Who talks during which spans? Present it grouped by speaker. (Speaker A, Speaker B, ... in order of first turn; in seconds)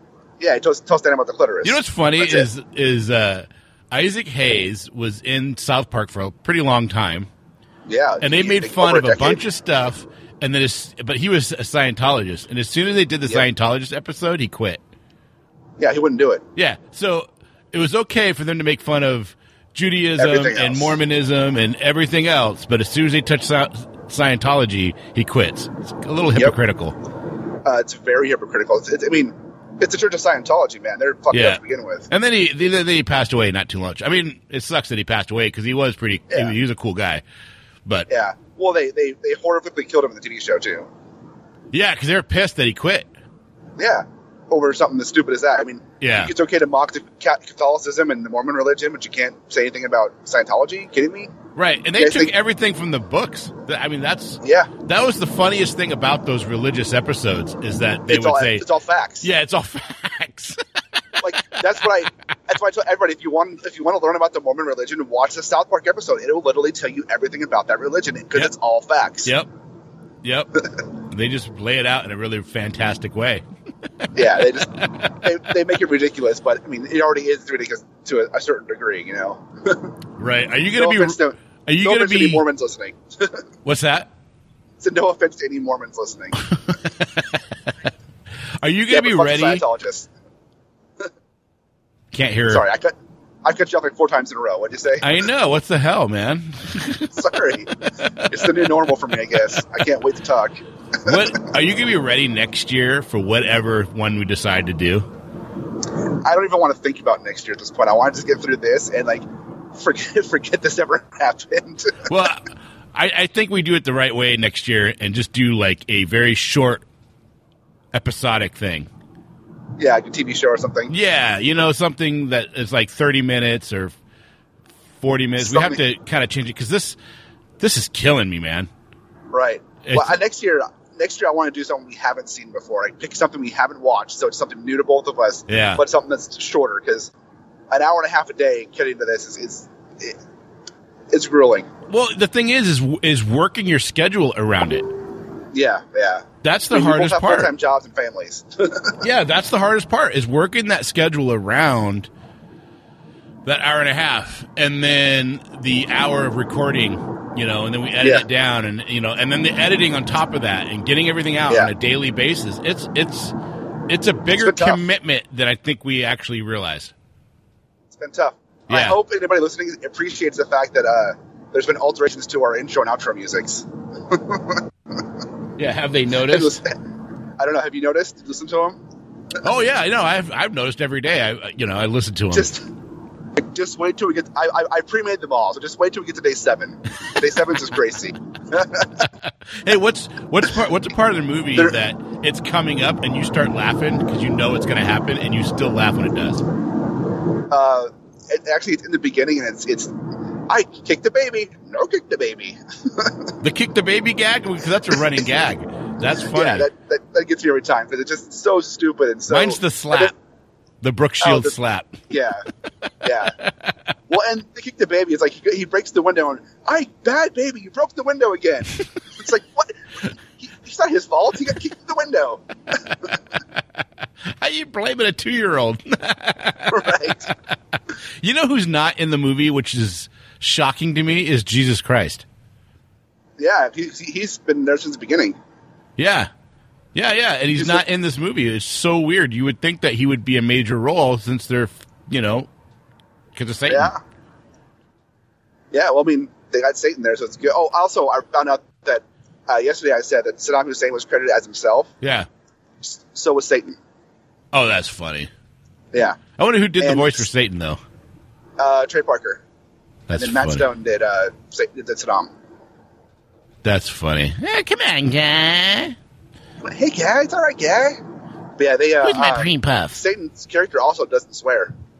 Speaker A: 0.4-2.5, 7.9-9.4, 15.8-16.4, 20.2-21.0, 27.6-32.1, 38.1-40.9, 43.8-51.3, 52.0-52.3, 54.4-54.7, 58.1-59.3, 61.2-69.3, 74.1-79.9, 80.7-83.4, 84.8-86.5, 88.9-90.1, 92.5-95.1, 97.1-101.2, 106.2-112.1, 119.8-120.9, 125.4-125.8, 129.3-137.1, 137.7-140.2, 141.1-141.7, 145.5-149.0, 158.0-158.3, 164.3-164.8, 167.9-174.6, 176.3-176.7, 177.4-178.8, 182.3-182.7, 183.3-189.1, 197.5-199.9, 200.5-203.4, 206.2-210.1, 211.2-211.6, 212.1-212.5, 213.0-213.4, 214.1-222.8, 226.7-227.3, 233.4-235.4, 237.6-237.8, 243.7-244.0, 245.7-251.9, 252.8-253.8, 255.9-256.2, 256.8-257.2, 258.6-259.4, 260.2-262.3, 266.6-268.0, 268.6-271.7
Speaker B: 1.6-7.3, 8.2-14.8, 16.6-27.0, 31.3-37.2, 41.7-43.1, 46.0-46.3, 51.6-58.6, 59.2-60.6, 70.2-73.4, 80.2-82.4, 83.7-84.1, 86.8-87.4, 88.6-89.6, 92.1-92.7, 95.0-97.1, 101.0-105.1, 112.1-116.8, 117.9-118.9, 120.9-124.0, 125.0-127.0, 127.6-128.7, 129.8-130.2, 135.5-135.8, 141.9-144.9, 146.4-147.5, 149.0-152.1, 153.4-163.3, 163.9-166.9, 168.7-169.0, 175.6-176.6, 179.4-182.5, 189.2-196.4, 203.4-206.7, 209.3-210.1, 210.8-212.0, 213.2-213.7, 224.2-226.9, 228.2-232.2, 236.0-236.3, 236.9-242.5, 243.3-243.9, 252.0-252.3, 254.5-255.3, 256.4-257.8, 260.1-260.7, 263.6-266.0, 269.0-270.0